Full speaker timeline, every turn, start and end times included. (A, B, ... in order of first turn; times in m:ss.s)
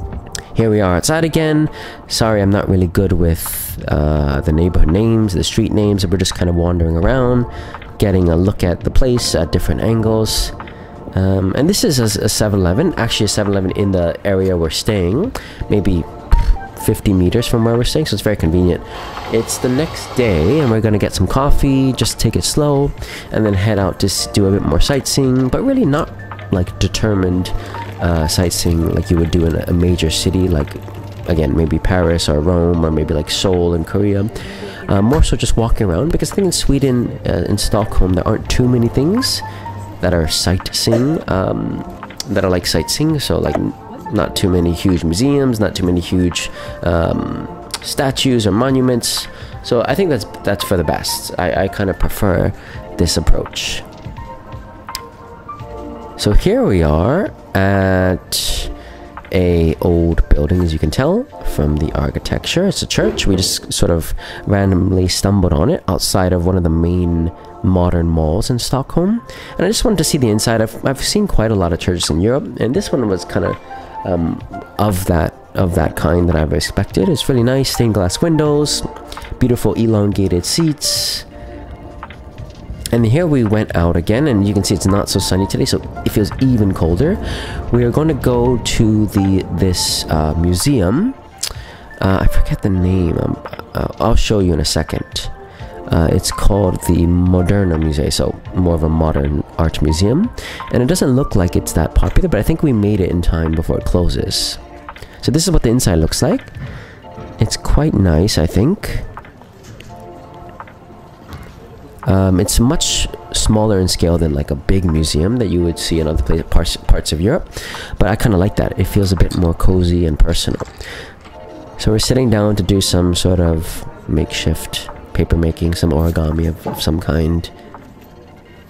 0:00.6-0:10.6 A
0:11.2-0:34.3 A
0:34.9-0:39.4 A
0:40.0-0:53.8 A
0:56.2-0:58.7 A
0:59.3-1:18.9 A
1:19.4-1:21.3 A
1:22.9-1:31.2 A
1:32.0-1:35.3 A
1:35.9-1:44.6 A
1:45.2-1:46.5 A
1:47.4-1:49.1 A
1:52.1-2:00.7 A
2:01.8-2:07.5 A